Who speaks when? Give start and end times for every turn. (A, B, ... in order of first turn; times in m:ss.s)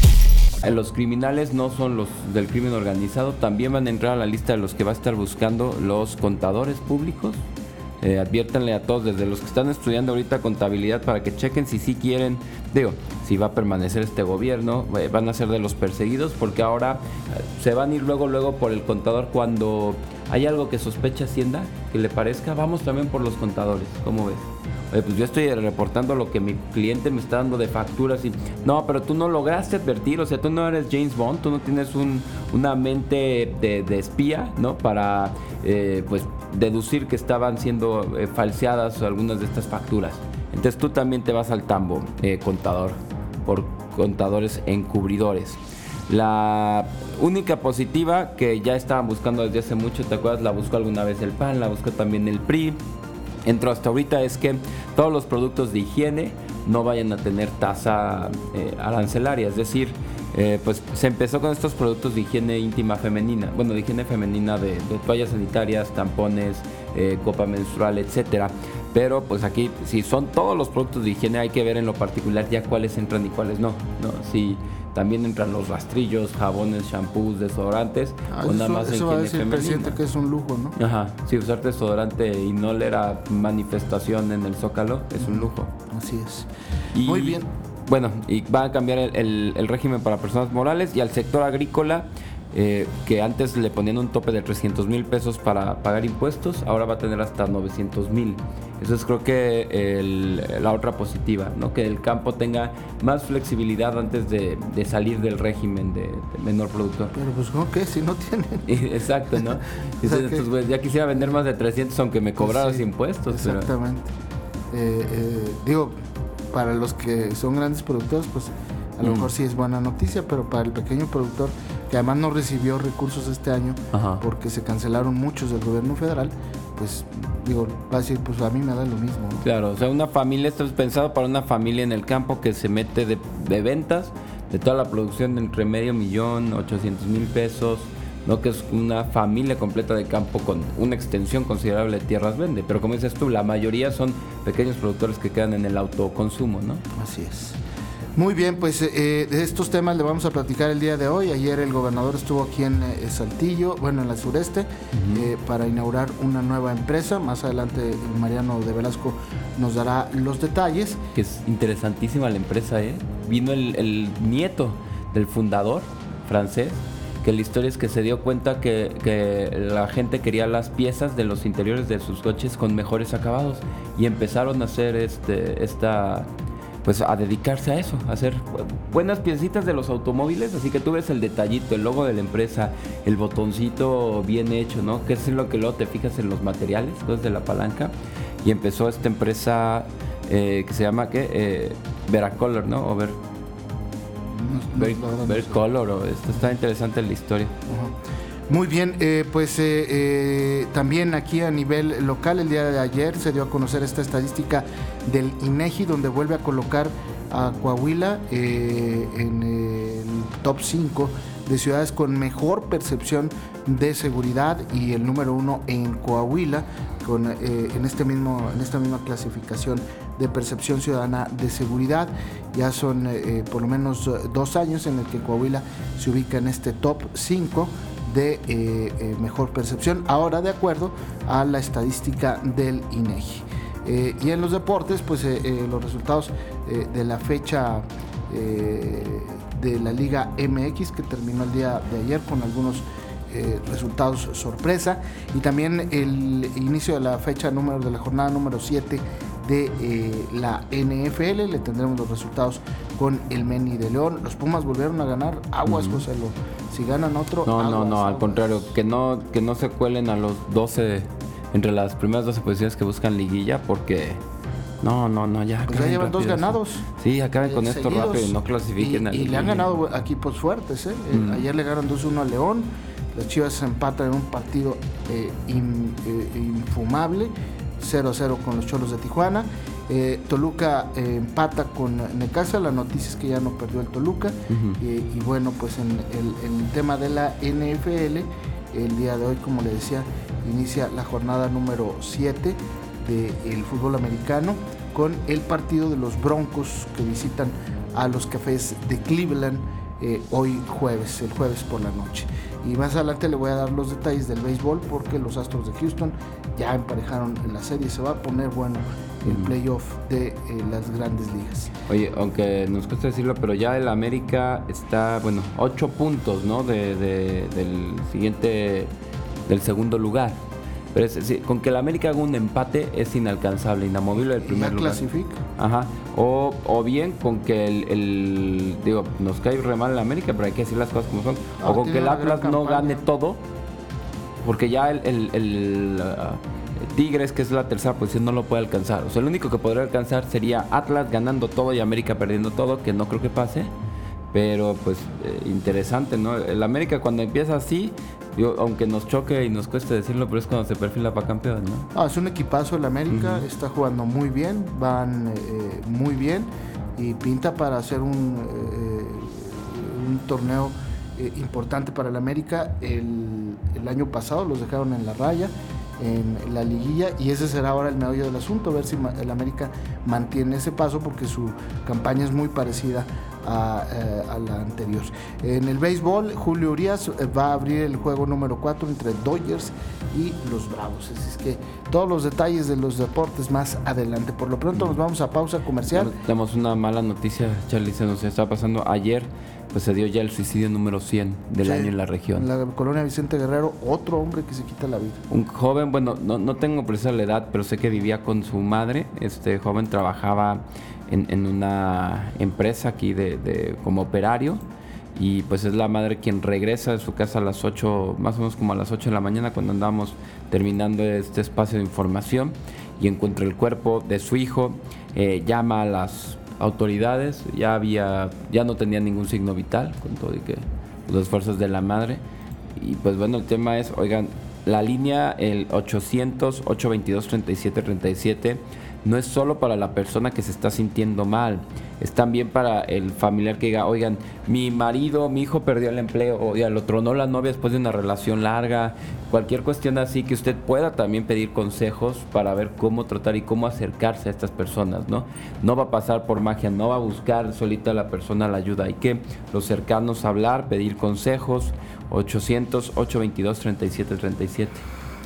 0:00.6-0:07.4 A
0:08.0-0:52.8 A
0:53.4-1:20.0 A
1:18.3-1:20.7 B
1:20.7-1:25.7 A
1:25.2-1:26.5 B
1:26.9-1:47.1 A
1:27.0-1:27.5 B
1:47.1-1:48.8 B
1:48.6-1:53.7 A
1:50.0-1:50.5 B
1:52.4-1:54.1 B
1:54.7-1:55.9 B
1:56.5-2:09.4 B
1:59.0-1:59.3 A
2:03.9-2:04.2 A
2:09.4-2:26.8 A
2:26.9-2:27.6 B
2:28.2-2:41.0 B
2:34.9-2:35.3 A
2:41.1-2:56.3 A
2:56.8-3:13.2 A
3:14.3-3:15.6 B
3:14.8-3:17.5 A
3:17.7-3:17.9 B
3:18.5-4:18.5 B
4:15.6-4:16.0 A
4:17.4-4:24.2 A
4:24.8-4:29.7 A
4:25.6-4:26.8 B
4:27.4-5:11.7 B
4:31.1-4:31.5 A
4:44.5-4:44.8 A
5:09.2-5:09.5 A
5:11.9-5:18.9 A
5:19.4-5:20.4 A
5:20.9-5:25.0 A
5:24.2-5:25.4 B
5:25.6-5:33.4 A
5:31.6-5:33.0 B
5:34.4-5:43.7 A
5:44.3-5:51.9 A
5:51.9-6:26.1 B
5:53.1-5:53.4 A
6:24.7-6:25.0 A
6:25.9-6:32.4 A
6:31.6-6:35.2 B
6:35.3-6:44.6 A
6:45.1-7:02.2 A
7:02.8-7:34.8 A